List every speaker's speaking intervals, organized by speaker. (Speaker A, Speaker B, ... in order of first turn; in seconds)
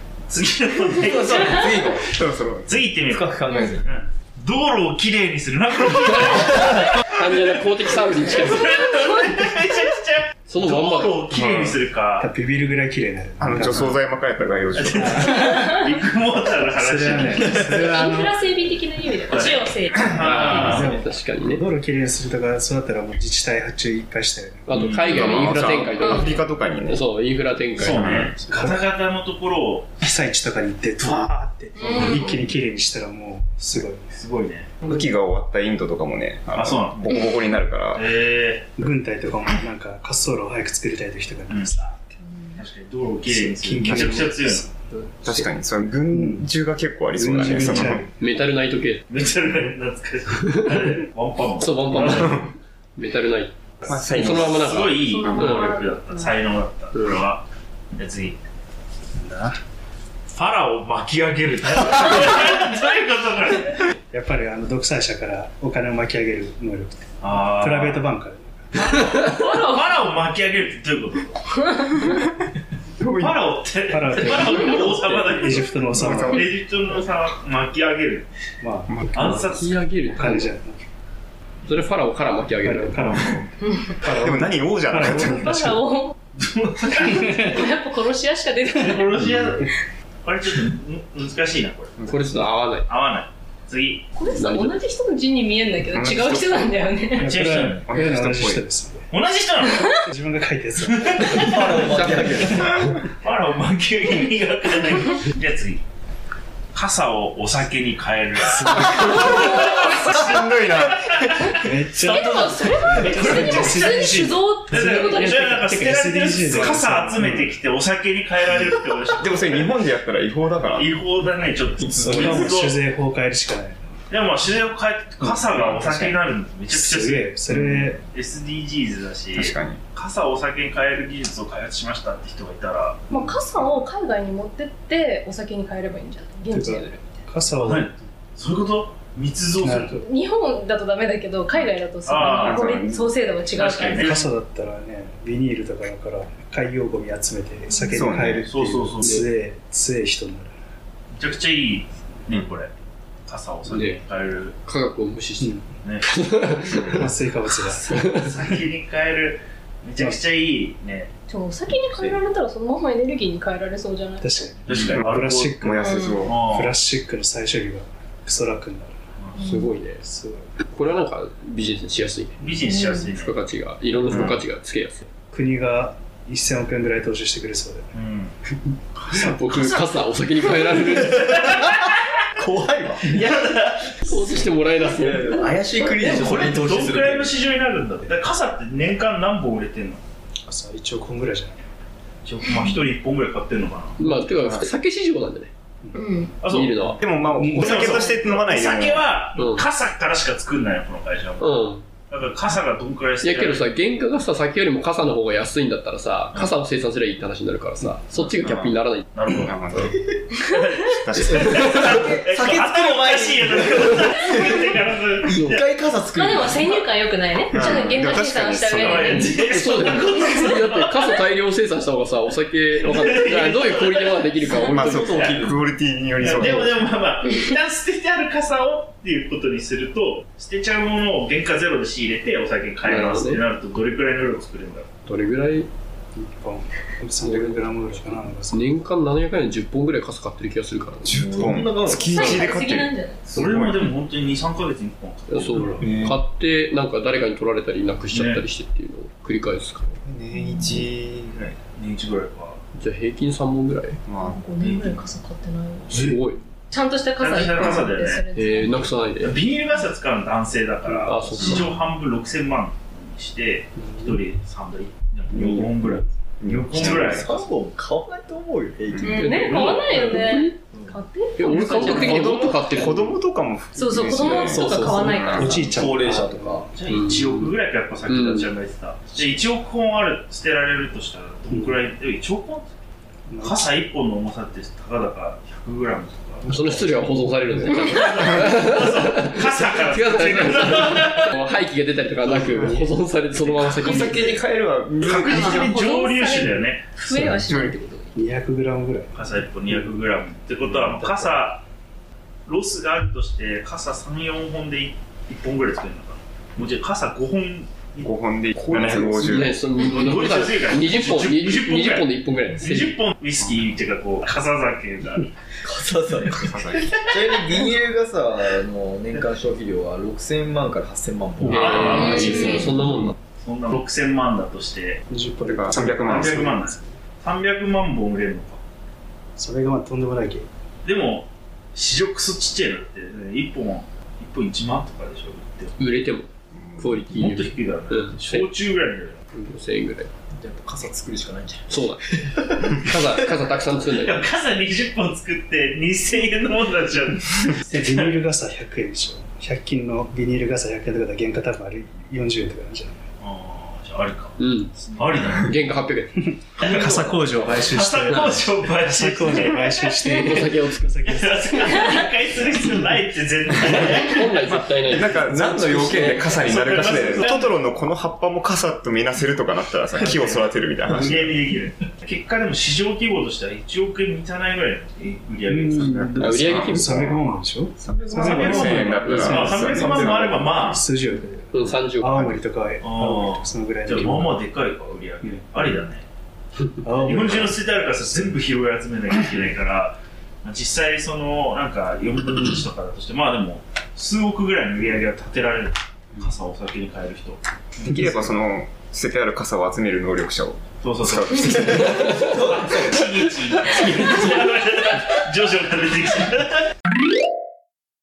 Speaker A: 0.3-2.0, 2.6-7.5, 8.2-12.3, 14.7-17.6, 19.3-21.0, 24.7-25.5, 27.8-29.9, 31.8-32.5, 34.1-34.7, 36.5-37.3, 37.9-38.7, 42.6-44.7, 49.1-52.4, 54.2-58.4, 60.3-63.9, 67.2-68.1, 68.7-71.5, 73.2-78.3, 79.1-79.8, 86.4-87.6, 88.7-89.7, 90.2-92.0, 92.9-94.1, 97.2-97.8, 99.1-99.9, 100.9-101.8, 103.2-105.8, 106.7-114.0, 114.7-119.8, 120.7-122.8, 124.1-133.1, 137.6-139.9, 142.1-142.7, 143.5-144.3, 148.5-149.2, 151.2-152.7, 153.3-154.5, 155.8-156.1, 156.6-157.0, 157.9-161.1, 164.7-165.6, 166.2-166.7, 172.4-173.4, 177.9-178.3, 181.4-181.9, 183.1-184.0, 186.0-190.0, 192.2-194.0, 196.4-197.0, 197.6-203.7, 209.1-215.7, 218.8-221.0, 222.8-225.4, 226.2-234.9, 243.3-245.9, 248.1-248.4, 251.7-252.6, 255.9-256.1, 257.2-258.2, 259.2-267.5, 276.7-282.7, 283.4-286.5, 287.7-291.3, 295.0-296.9, 299.1-301.6, 302.5-308.1, 308.7-309.2, 309.8-315.3, 321.5-322.7, 323.4-325.0, 326.0-328.6, 330.8-335.9, 337.1-339.2, 343.9-348.1, 353.2-355.5, 356.6-357.0, 357.5-359.9, 361.1-364.5, 366.4-367.5, 369.9-376.0, 378.1-380.8, 382.8-386.0, 386.9-397.4, 400.8-406.7
Speaker B: 1.0-2.1, 3.1-3.9, 101.5-102.8, 121.8-122.5, 161.7-162.2, 182.3-183.3, 184.9-187.4, 212.0-214.7, 215.3-216.8, 217.6-217.8, 224.6-225.7, 241.1-242.2, 245.8-246.2, 266.8-269.4, 270.7-271.0, 274.5-276.7, 315.6-322.0, 340.4-342.8, 402.3-402.7
Speaker C: 1.9-2.9, 11.3-11.8, 13.4-15.4, 25.1-27.0, 27.8-28.3, 34.8-38.1, 43.8-44.3, 45.2-48.0, 51.9-52.5, 53.9-54.6, 73.0-73.4, 75.9-76.5, 78.9-79.4, 83.1-83.4, 84.0-85.7, 92.0-92.4, 95.9-98.6, 108.7-111.0, 116.5-116.8, 119.2-120.9, 127.5-127.9, 129.3-129.8, 142.3-143.1, 147.9-148.4, 165.6-166.4, 194.4-194.7, 197.0-199.1, 208.3-208.7, 209.3-209.9, 210.9-211.9, 217.5-219.2, 224.6-226.8, 241.0-243.9, 250.0-251.6, 254.1-254.4, 266.4-267.3, 268.9-269.2, 271.4-275.5, 286.4-287.3, 292.2-292.9, 293.6-295.8, 297.1-297.8, 308.0-309.6, 316.3-317.0, 325.4-326.5, 336.5-337.0, 364.7-371.4, 375.7-380.5, 397.8-402.1
Speaker D: 7.0-8.8, 10.5-11.4, 20.2-21.6, 24.7-28.3, 47.5-49.0, 50.4-50.8, 51.6-55.7, 74.2-75.6, 79.5-80.5, 81.7-83.1, 92.0-92.9, 94.3-94.8, 101.2-103.0, 149.0-149.2, 153.7-154.0, 154.6-157.1, 157.9-158.2, 169.4-170.0, 170.7-172.5, 173.1-175.0, 179.1-181.5, 184.0-185.9, 194.0-195.5, 196.4-197.1, 199.3-199.7, 201.4-201.8, 203.2-209.1, 211.3-212.1, 215.3-215.6, 219.0-225.3, 232.8-233.4, 235.1-235.7, 237.2-241.6, 245.3-250.0, 252.7-254.0, 255.9-256.4, 258.3-259.4, 260.9-261.7, 269.0-270.6, 271.4-273.2, 274.1-274.6, 275.4-275.7, 276.9-277.5, 278.1-278.5, 286.4-294.4, 309.0-313.0, 321.4-323.1, 335.8-338.5, 339.3-340.1, 341.7-344.2, 354.4-357.6, 360.0-360.9, 363.6-366.5, 376.2-377.1, 379.0-379.8, 381.5-382.4, 401.9-402.3, 403.9-404.2
Speaker E: 8.7-9.1, 17.6-20.7, 26.0-26.3, 55.0-56.4, 69.3-69.9, 71.6-72.1, 83.7-83.9, 85.2-86.2, 86.9-89.2, 94.1-97.3, 109.2-109.8, 112.0-115.4, 133.1-137.2, 139.9-144.1, 147.7-148.0, 161.3-164.3, 165.8-166.2, 169.4-169.7, 172.6-173.1, 186.0-186.3, 195.9-196.4, 216.1-219.3, 241.9-243.4, 250.3-250.8, 254.2-256.1, 256.7-259.0, 269.1-272.7, 273.7-275.5, 295.3-298.2
Speaker F: 12.2-13.9, 14.9-15.6, 16.8-18.4, 20.4-24.7, 28.3-28.9, 30.0-34.1, 38.8-42.1, 43.2-45.5, 46.1-46.5, 47.1-48.1, 59.2-59.6, 64.1-69.0, 73.9-76.5, 78.6-79.5, 80.1-80.8, 82.6-85.9, 87.0-87.6, 97.2-99.1, 99.9-101.9, 102.5-102.8, 108.4-109.3, 111.5-117.6, 121.8-123.8, 125.2-128.0, 133.1-133.8, 136.5-137.9, 139.6-140.1, 144.0-150.5, 155.4-155.7, 156.8-158.5, 164.2-169.0, 170.0-170.5, 175.3-177.9, 190.4-191.6, 195.8-196.2, 197.3-197.8, 236.2-238.7, 263.8-264.2, 275.3-276.7, 283.3-283.8, 298.1-299.8, 300.9-301.5, 325.1-326.9, 329.4-330.5, 347.6-353.0, 356.2-361.9, 375.5-384.6, 385.2-385.9, 386.8-388.4, 397.9-398.2